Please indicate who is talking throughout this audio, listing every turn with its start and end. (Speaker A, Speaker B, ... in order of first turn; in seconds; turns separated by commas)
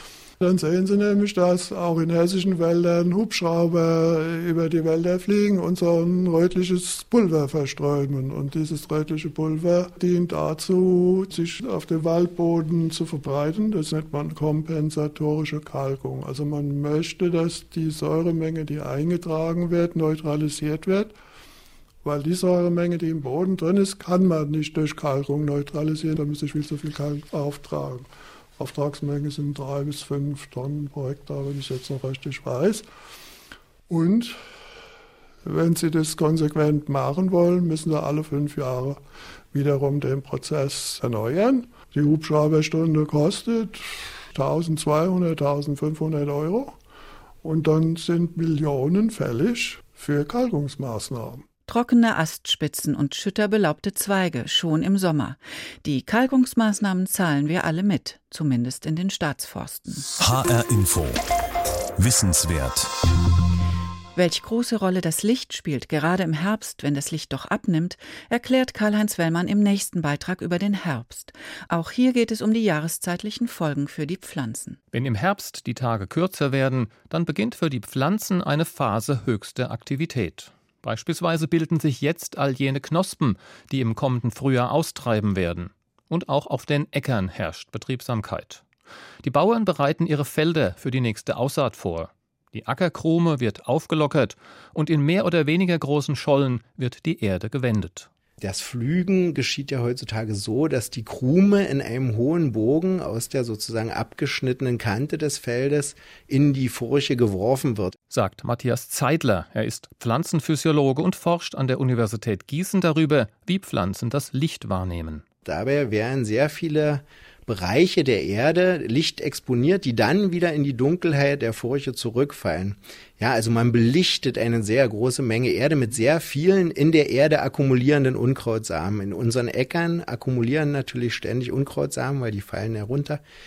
Speaker A: 0.4-21.1, Speaker A: 22.0-32.9, Speaker A: 33.9-34.4, Speaker A: 35.4-39.0, Speaker A: 39.5-46.8, Speaker A: 47.4-51.4, Speaker B: 51.7-60.0, Speaker C: 60.2-61.2, Speaker C: 62.0-63.0, Speaker B: 64.2-74.8, Speaker D: 74.9-88.6, Speaker D: 89.2-98.1, Speaker E: 98.4-108.0, Speaker D: 108.1-115.2, Speaker E: 115.5-133.2